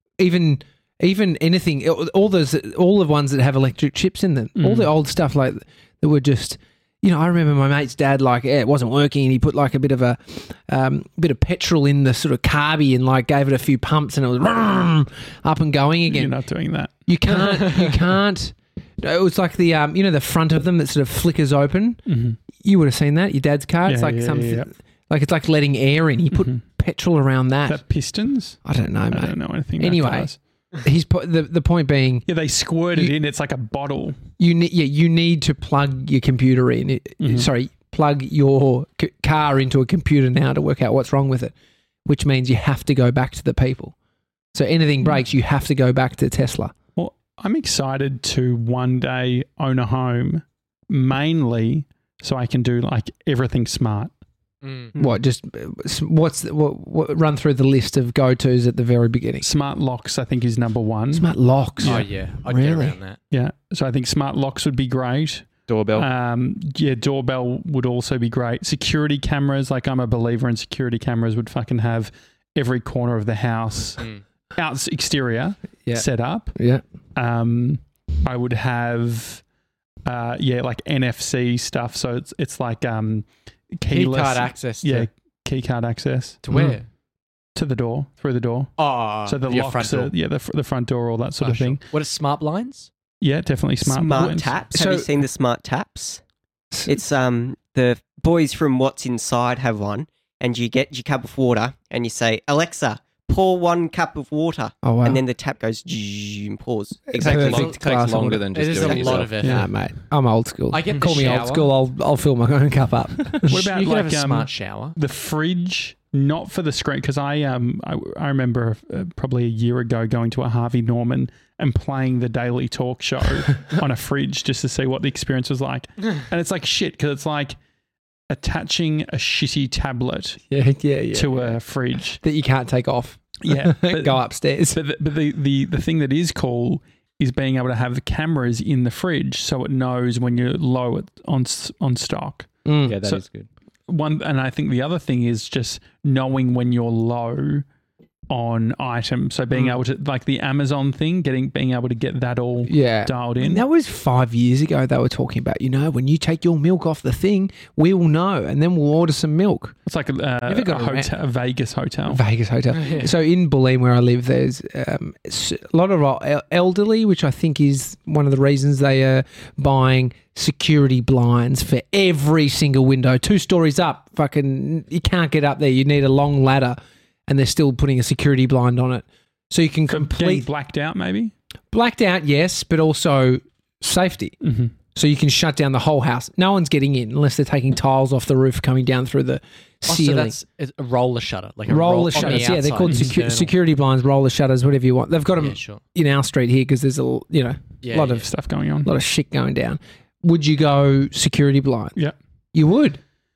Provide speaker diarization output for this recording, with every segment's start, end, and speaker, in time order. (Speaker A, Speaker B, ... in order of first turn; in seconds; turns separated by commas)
Speaker A: 0.2-16.3, Speaker B: 4.6-4.9, Speaker B: 16.1-17.1, Speaker A: 17.1-27.8, Speaker B: 22.1-22.4, Speaker B: 23.9-24.7, Speaker B: 26.3-26.6, Speaker B: 27.7-30.4, Speaker A: 28.6-30.3, Speaker A: 30.8-32.2, Speaker B: 32.2-34.2, Speaker A: 34.4-41.5, Speaker B: 37.2-37.5, Speaker A: 42.0-43.9, Speaker A: 44.5-46.7, Speaker B: 46.9-54.1, Speaker C: 54.6-54.9, Speaker A: 55.0-59.5, Speaker B: 59.4-61.3, Speaker A: 61.1-63.0, Speaker B: 61.8-62.1, Speaker C: 61.8-63.2, Speaker B: 63.3-76.5, Speaker D: 65.7-66.1, Speaker A: 76.5-76.8, Speaker B: 77.1-79.4, Speaker B: 80.0-86.4, Speaker C: 83.9-85.1, Speaker C: 86.4-86.9, Speaker A: 86.5-86.8, Speaker B: 87.5-91.8, Speaker C: 88.8-90.1, Speaker C: 91.4-92.9, Speaker B: 93.2-94.6, Speaker E: 93.8-96.2, Speaker A: 94.1-95.2, Speaker A: 96.7-97.0, Speaker E: 96.9-107.8, Speaker A: 104.8-105.2, Speaker A: 107.1-108.4, Speaker D: 107.1-109.4, Speaker C: 108.5-109.7, Speaker E: 108.9-109.2, Speaker B: 109.4-109.7, Speaker A: 109.4-113.6, Speaker C: 110.7-111.7, Speaker B: 113.5-127.6, Speaker C: 113.5-115.0, Speaker B: 128.3-130.4, Speaker A: 130.5-131.6, Speaker B: 131.1-132.2, Speaker A: 132.2-134.8, Speaker B: 133.4-142.5, Speaker A: 142.6-143.0, Speaker D: 142.8-143.5, Speaker B: 143.9-147.7, Speaker B: 148.3-153.6, Speaker A: 152.7-159.8, Speaker B: 159.8-162.2, Speaker A: 160.4-161.1, Speaker A: 162.1-180.4, Speaker C: 162.7-163.1, Speaker B: 179.9-181.3, Speaker A: 181.7-184.4, Speaker B: 184.4-184.7, Speaker A: 184.9-190.3, Speaker C: 189.9-193.5, Speaker A: 191.7-198.3, Speaker B: 192.1-193.1, Speaker C: 195.4-195.8, Speaker C: 197.8-198.3, Speaker B: 198.1-198.9, Speaker A: 198.8-201.9, Speaker A: 202.5-203.0